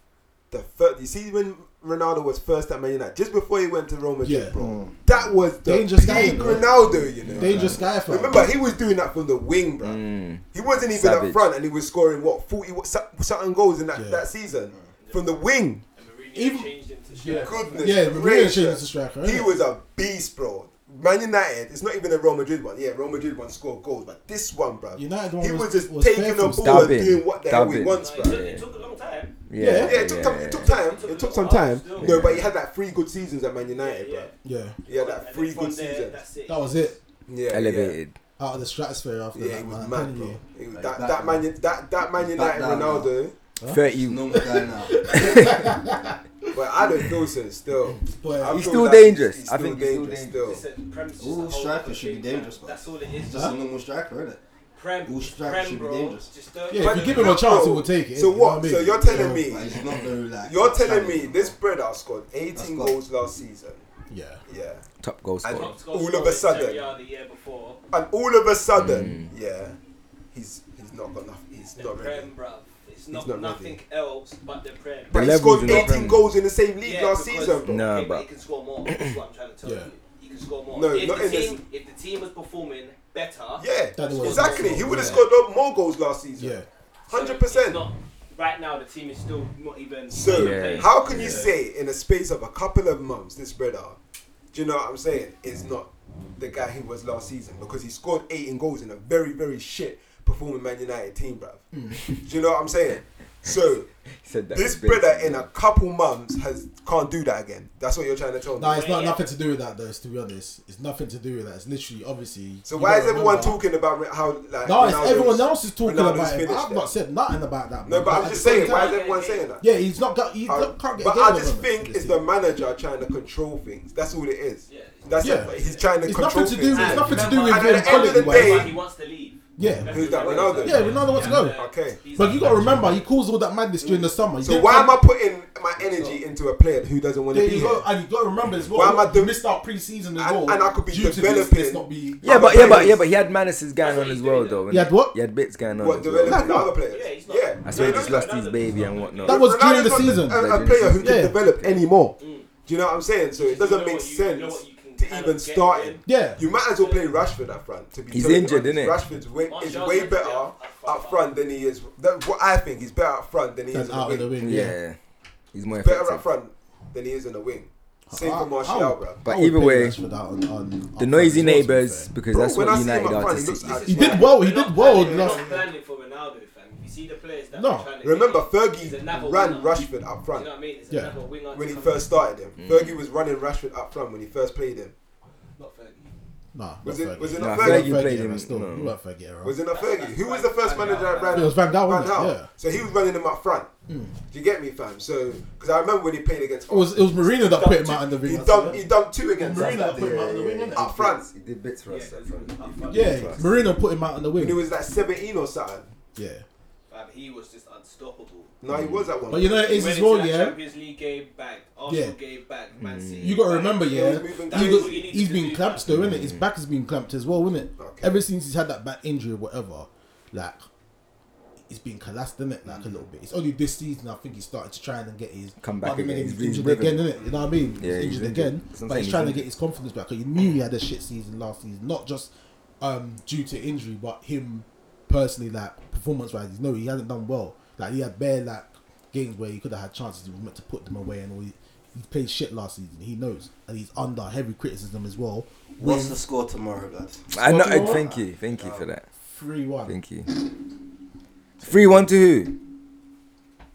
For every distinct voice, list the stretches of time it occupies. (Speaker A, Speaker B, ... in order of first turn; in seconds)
Speaker A: 0.5-10.0, 10.5-15.8, 17.4-28.4, 29.7-34.3, 34.9-36.2, 37.3-38.0, 39.3-43.3, 46.5-50.6, 56.8-63.8, 64.5-64.8, 65.4-66.8, 67.9-69.8, 70.3-72.3, 73.1-73.8, 75.1-77.8, 80.7-81.5, 83.6-86.5, 87.1-87.8, 90.1-94.0, 94.5-103.9, 104.5-108.8, 112.7-116.9, 117.8-119.7, 120.5-128.7, 129.9-132.0, 134.4-137.9, 138.7-139.4, 140.2-143.0, 145.8-148.2, 149.2-164.5, 165.7-169.2, 172.3-175.7, 178.0-180.5, 181.5-184.9, 186.8-188.1, 189.4-193.7, 194.3-201.3, 204.3-205.9, 208.6-209.8, 213.8-215.1, 217.8-218.2
Speaker B: 4.2-4.6, 5.6-8.5, 13.9-14.2, 16.3-19.5, 24.9-27.0, 29.6-30.0, 34.4-34.8, 36.5-37.0, 38.4-40.4, 43.6-46.5, 48.1-48.7, 53.3-53.5, 56.7-59.5, 64.1-64.4, 79.6-79.9, 84.0-85.2, 86.4-86.7, 108.6-113.6, 114.6-119.0, 119.6-122.2, 125.2-128.7, 129.6-131.6, 132.2-135.0, 135.8-136.2, 137.3-143.0, 144.7-145.1, 146.2-146.7, 149.2-151.3, 156.1-156.4, 163.7-164.8, 168.1-172.1, 173.8-175.4, 177.6-177.9, 186.5-189.5, 191.3-192.5, 193.9-194.1, 196.7-200.9, 202.9-204.6, 206.2-206.4, 209.3-210.6, 211.9-212.1, 213.2-220.6, 221.7-246.2, 247.4-248.1, 249.2-250.0, 251.6-252.1
Speaker C: 9.8-11.5, 26.4-28.6, 29.5-30.7, 32.0-32.5, 37.5-38.1, 43.7-44.3, 45.1-45.7, 48.5-50.6, 65.0-65.7, 68.8-69.3, 75.1-76.2, 77.7-78.2, 90.3-91.5, 104.2-105.5, 142.2-146.7, 147.6-151.8, 158.1-159.0, 164.4-165.0, 165.5-166.2, 169.2-170.0, 171.0-173.9, 182.6-182.9, 187.3-188.9, 200.8-203.4, 208.7-209.1, 212.8-213.4, 215.9-216.4, 225.6-227.1, 227.8-229.4, 247.3-249.0, 249.9-250.3, 251.6-252.6
Speaker D: 15.0-15.4, 15.9-18.0, 27.8-29.4, 30.6-32.2, 33.6-34.3, 34.9-36.9, 50.4-53.7, 54.8-57.4, 65.5-67.8, 71.7-76.1, 76.8-85.2, 87.1-91.6, 108.6-109.3, 118.1-119.5, 124.7-125.9, 126.7-133.0, 143.8-144.6, 146.8-149.4, 152.2-152.5, 153.3-156.0, 156.7-157.1, 159.5-161.3, 173.7-182.2, 185.6-186.1, 189.7-191.6, 201.9-203.6, 206.9-208.5, 209.6-215.9
Speaker E: 40.7-41.5, 42.1-43.1, 44.0-45.2, 51.2-54.4, 55.0-56.3, 59.1-61.5, 62.5-63.0, 245.8-247.3, 247.8-248.2